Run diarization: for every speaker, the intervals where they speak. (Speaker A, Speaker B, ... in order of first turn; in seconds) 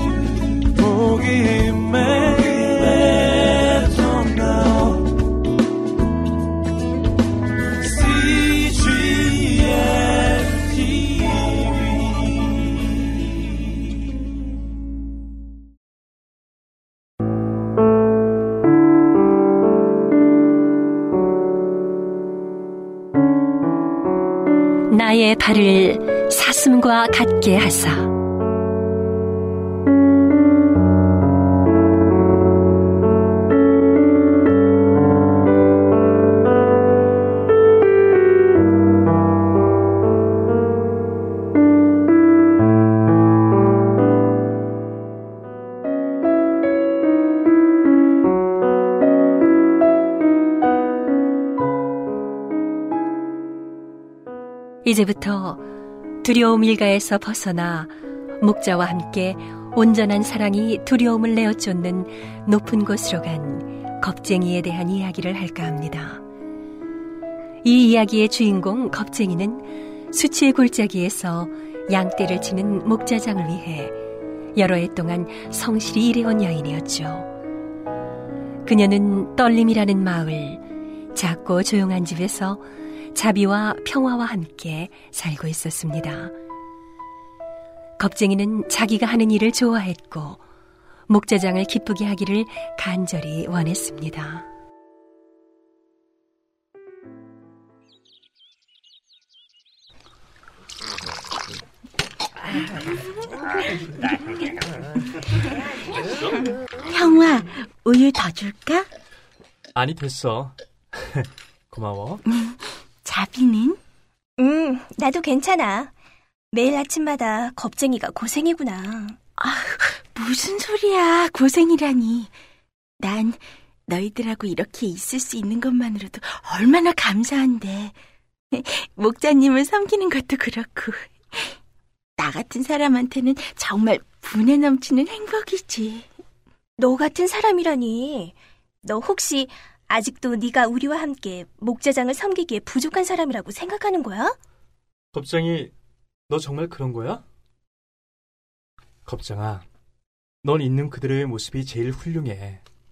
Speaker A: 0.8-5.0, 7.9-9.9, 109.8-112.2, 145.1-145.7, 146.3-147.2, 149.1-149.7, 150.4-152.6
Speaker B: 24.9-28.1, 54.8-55.6, 56.2-66.2, 67.6-74.0, 74.5-77.3, 78.7-80.6, 81.1-86.3, 88.0-90.4, 91.1-94.5
Speaker C: 106.9-108.9, 112.3-113.8, 119.4-122.3, 123.0-128.0, 128.5-131.6, 132.2-136.1
Speaker D: 114.4-115.9, 116.5-119.2, 136.8-144.4